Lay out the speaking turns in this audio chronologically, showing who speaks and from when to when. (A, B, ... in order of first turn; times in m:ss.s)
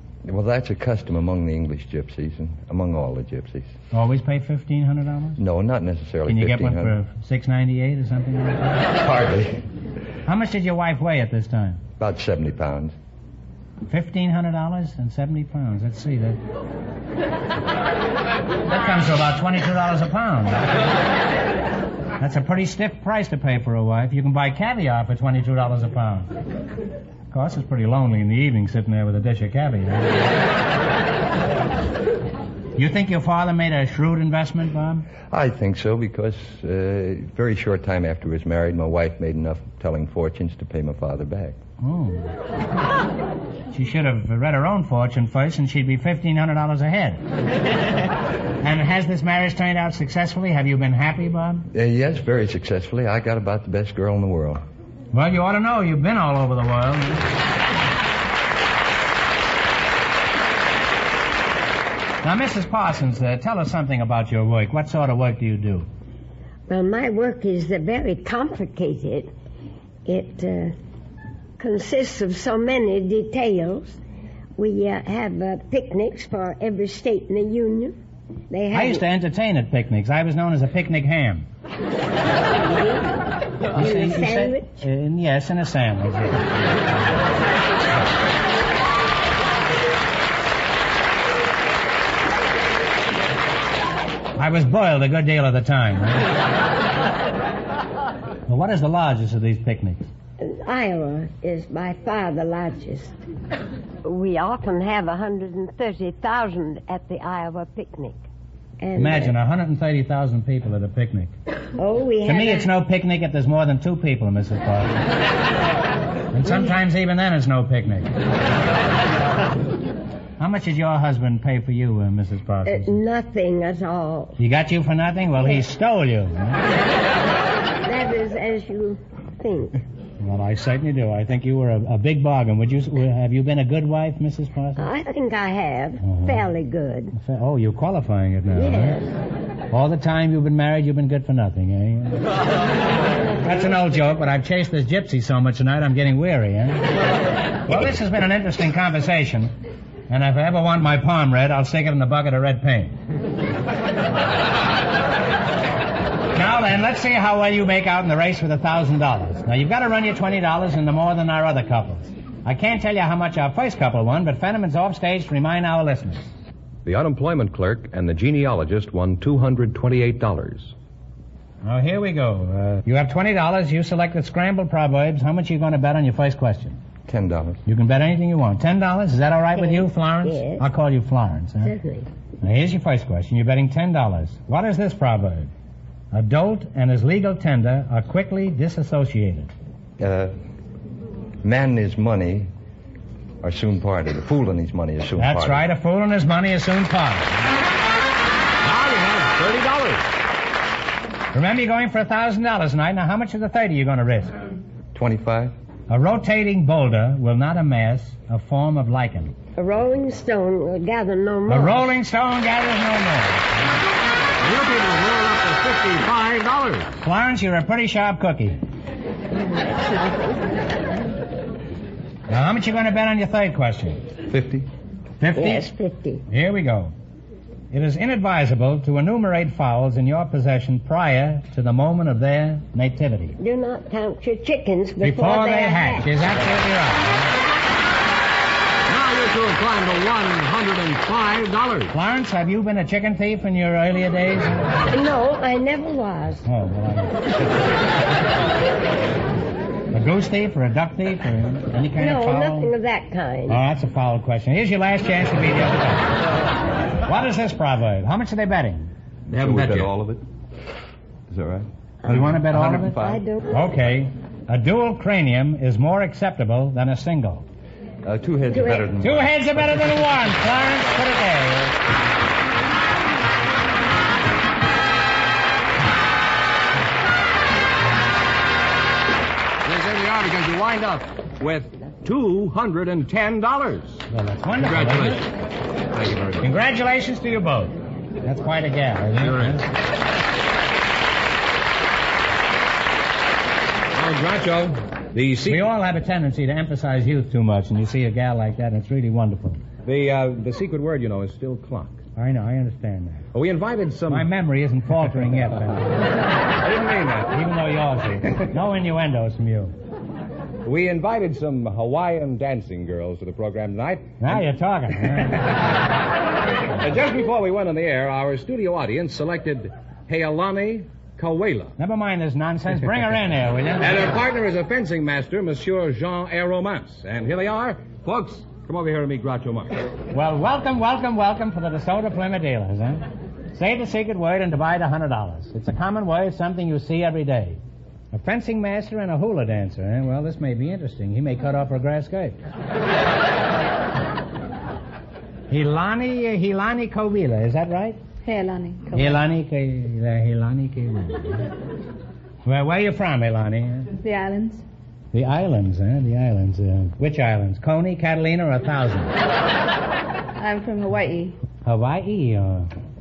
0:00.2-0:03.7 A
0:03.9-0:05.4 B
0:05.4-0:07.0 A
0:06.3-0:08.9 B
0:08.9-0:09.6 A
0:10.2-0:11.8 B
0:12.0-0:12.9 A
0:13.9-0:16.4 B
0:18.7-0:20.9 B
0:22.2-0:26.3 B
0:27.3-0:30.2 B
0:32.8-0:35.0 B
0:35.3-0:41.6 A
0:41.8-0:42.3 B
0:43.7-0:47.2 B
0:48.6-0:51.6 B
0:51.7-0:54.6 A
0:55.1-0:57.3 B
1:02.2-1:05.9 B
1:06.7-1:09.3 C
1:10.0-1:10.7 C
1:11.6-1:14.0 C
1:14.6-1:18.0 C
1:18.5-1:19.0 C
1:18.7-1:21.4 B
1:22.6-1:24.7 C
1:23.7-1:26.7 B
1:34.4-1:36.3 B
1:38.5-1:40.1 B
1:40.4-1:43.1 C
1:44.0-1:48.2 C
1:48.8-1:49.3 C
1:49.0-1:51.3 B
1:51.8-1:52.7 C
1:52.2-1:55.0 B
1:56.3-1:58.1 B
2:00.4-2:03.0 B
2:02.6-2:04.4 C
2:04.4-2:06.6 B
2:07.8-2:09.8 C
2:10.2-2:14.8 B
2:14.8-2:17.1 C
2:16.0-2:16.4 B
2:17.1-2:19.0 B
2:18.5-2:19.1 C
2:19.7-2:22.2 B
2:23.4-2:26.9 B
2:27.6-2:29.5 B
2:30.1-2:33.0 B
2:36.3-2:46.3 B
2:46.8-2:50.7 D
2:51.6-2:56.8 B
2:57.1-2:57.6 A
2:57.7-3:01.7 B
2:59.6-3:00.7 C
3:01.6-3:02.1 C
3:02.4-3:05.5 B
3:06.1-3:09.5 B
3:10.0-3:10.3 A
3:11.4-3:12.5 A
3:13.4-3:15.7 A
3:15.2-3:17.4 B
3:18.6-3:20.0 D
3:21.3-3:24.3 B
3:24.9-3:25.5 A
3:25.9-3:29.3 B
3:29.6-3:31.9 C
3:31.5-3:33.5 B
3:34.4-3:36.9 D
3:37.0-3:38.6 B
3:42.3-3:44.0 B
3:44.3-3:44.7 A
3:45.2-3:45.7 B
3:45.3-3:46.2 C
3:46.3-3:46.9 B
3:47.7-3:53.4 B
3:53.4-3:56.1 C
3:55.0-3:57.3 B
3:58.9-4:01.9 D
4:01.9-4:04.8 B
4:04.9-4:06.4 C
4:06.4-4:07.2 B
4:09.9-4:12.7 B
4:12.0-4:13.6 C
4:13.5-4:16.2 B
4:17.0-4:18.9 B
4:19.3-4:20.2 A
4:19.4-4:19.9 D
4:21.3-4:23.2 A
4:22.0-4:27.4 B
4:22.9-4:23.4 C
4:28.0-4:29.8 A
4:28.5-4:28.9 C
4:29.0-4:31.8 B
4:39.6-4:44.0 D
4:44.1-4:45.3 B
4:44.6-4:45.3 D
4:45.9-4:46.5 D
4:46.4-4:49.7 B
4:49.2-4:49.6 D
4:53.9-4:55.7 D
4:55.5-4:59.6 B
4:59.8-5:02.0 D
5:02.2-5:03.3 B
5:03.3-5:04.3 D
5:04.1-5:06.0 B
5:06.6-5:07.4 D
5:07.3-5:09.7 B
5:10.6-5:14.4 D
5:14.2-5:15.4 B
5:16.8-5:21.7 D
5:21.8-5:23.9 B
5:23.8-5:29.8 D
5:30.1-5:37.6 B
5:38.1-5:42.4 B
5:45.5-5:48.0 B
5:48.2-5:49.2 E
5:48.9-5:51.5 B
5:52.4-5:53.9 B
5:54.0-5:54.6 E
5:55.1-5:59.1 B
6:00.4-6:01.4 E
6:01.6-6:02.7 B